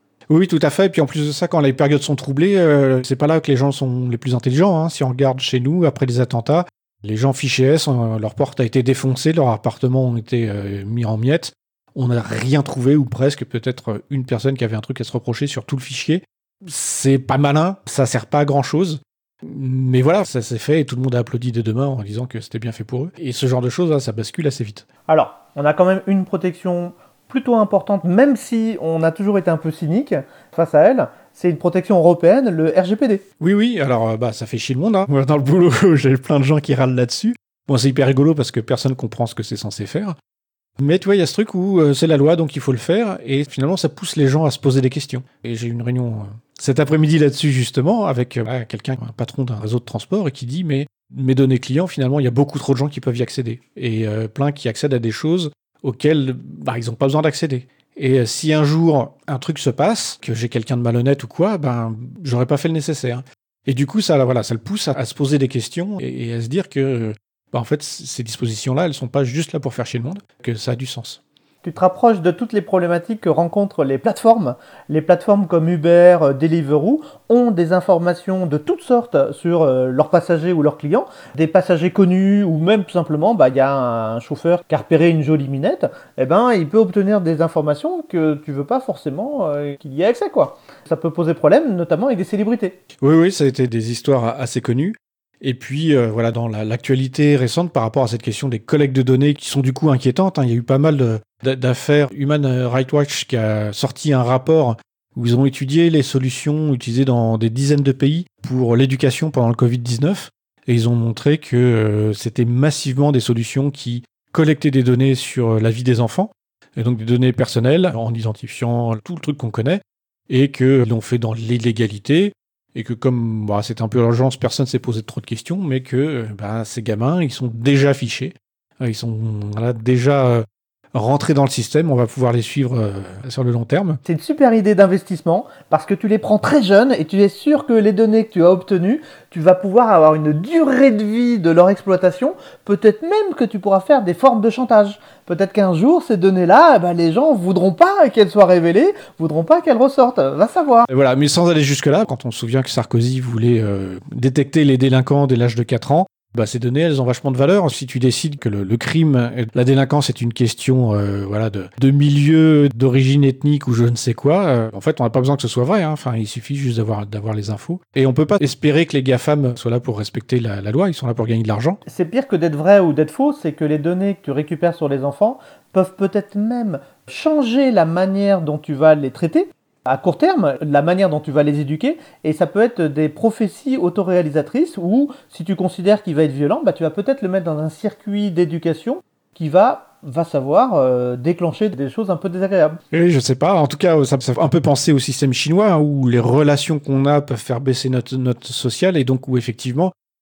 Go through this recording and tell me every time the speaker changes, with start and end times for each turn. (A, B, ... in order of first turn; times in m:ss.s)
0:00.3-0:24.8 A
0:25.1-0:33.2 B
0:33.4-0:40.1 A
0:40.8-1:11.2 A
1:11.6-1:32.8 B
1:33.0-2:14.0 A
2:14.0-2:30.9 B
2:30.9-2:51.8 A
2:51.8-3:12.8 B
3:12.9-3:19.9 A